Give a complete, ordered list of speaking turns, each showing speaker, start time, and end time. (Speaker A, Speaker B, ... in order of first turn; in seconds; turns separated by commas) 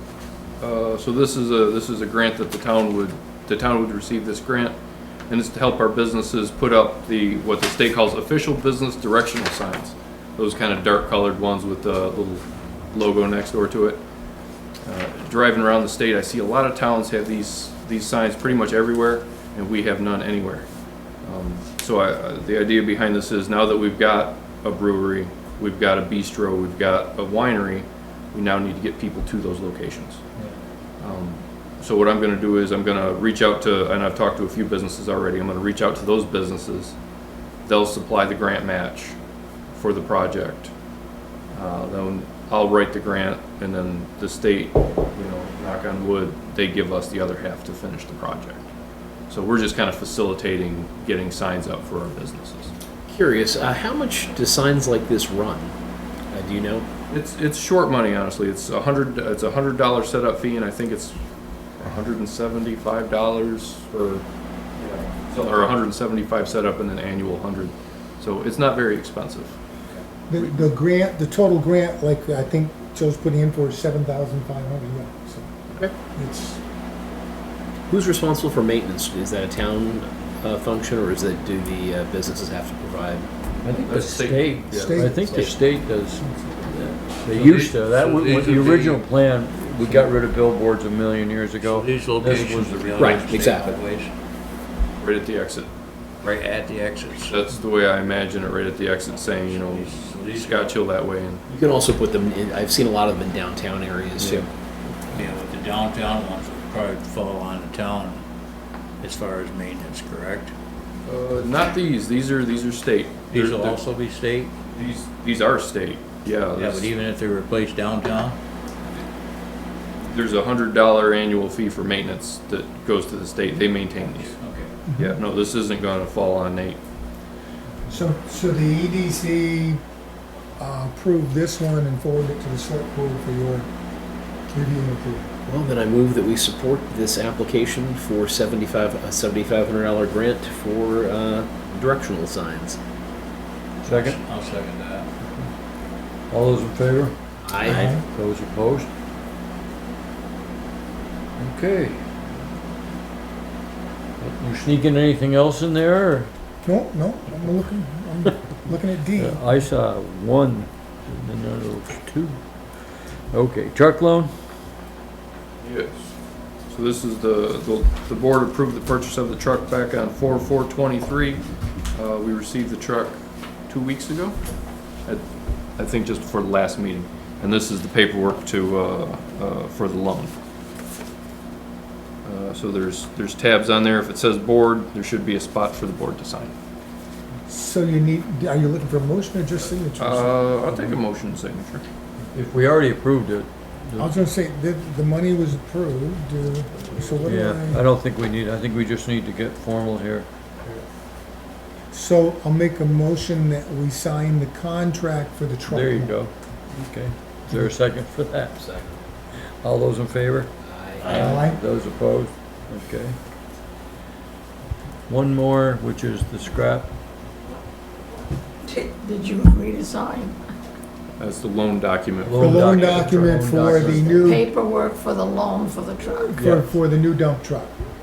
Speaker A: 0.6-4.8, Speaker A: 5.3-14.0, Speaker A: 14.8-20.7, Speaker A: 21.2-30.2, Speaker A: 31.0-37.0, Speaker A: 37.6-39.2, Speaker A: 39.7-40.7, Speaker A: 41.5-48.7, Speaker A: 49.3-52.7, Speaker B: 53.1-55.8, Speaker B: 56.3-56.9, Speaker A: 57.1-61.2, Speaker A: 61.8-64.2, Speaker A: 64.8-69.6, Speaker C: 70.3-75.5, Speaker A: 70.4-70.7, Speaker C: 76.2-76.6, Speaker B: 77.9-83.3, Speaker A: 83.6-85.1, Speaker D: 83.7-93.3, Speaker C: 84.7-85.2, Speaker B: 85.0-85.5, Speaker E: 87.3-89.0, Speaker E: 91.7-94.2, Speaker B: 93.0-93.8, Speaker A: 95.0-95.7, Speaker E: 96.2-97.4, Speaker A: 97.2-101.4, Speaker E: 99.2-100.8, Speaker B: 101.5-104.5, Speaker A: 104.2-104.5, Speaker E: 105.1-108.2, Speaker E: 109.0-110.5, Speaker A: 111.1-113.8, Speaker E: 113.3-114.6, Speaker A: 114.7-116.9, Speaker E: 116.6-118.4, Speaker A: 120.0-124.4, Speaker E: 124.0-124.7, Speaker C: 124.9-125.2, Speaker A: 125.0-126.8, Speaker C: 127.9-129.8, Speaker C: 130.6-133.7, Speaker C: 134.5-135.3, Speaker B: 135.4-142.8, Speaker D: 143.8-144.2, Speaker E: 143.9-145.1, Speaker D: 146.3-148.9, Speaker B: 147.4-147.9, Speaker C: 147.6-148.0, Speaker D: 151.4-152.0, Speaker D: 154.2-156.3, Speaker C: 156.7-159.5, Speaker D: 159.2-162.4, Speaker D: 163.3-164.3, Speaker A: 165.6-166.1, Speaker A: 166.7-174.4, Speaker A: 175.1-180.3, Speaker A: 182.2-186.5, Speaker C: 187.5-191.0, Speaker A: 190.0-191.8, Speaker D: 192.3-194.2, Speaker C: 194.0-197.8, Speaker A: 196.8-197.3, Speaker D: 197.2-200.3, Speaker C: 201.9-206.2, Speaker D: 205.7-208.7, Speaker B: 208.6-209.0, Speaker D: 209.3-213.2, Speaker B: 210.6-211.3, Speaker E: 211.0-211.4, Speaker C: 211.1-211.6, Speaker D: 215.1-216.9, Speaker F: 218.7-220.4, Speaker A: 221.2-223.2, Speaker D: 222.2-224.4, Speaker C: 222.4-224.5, Speaker F: 224.2-226.4, Speaker C: 226.2-227.8, Speaker A: 226.4-226.7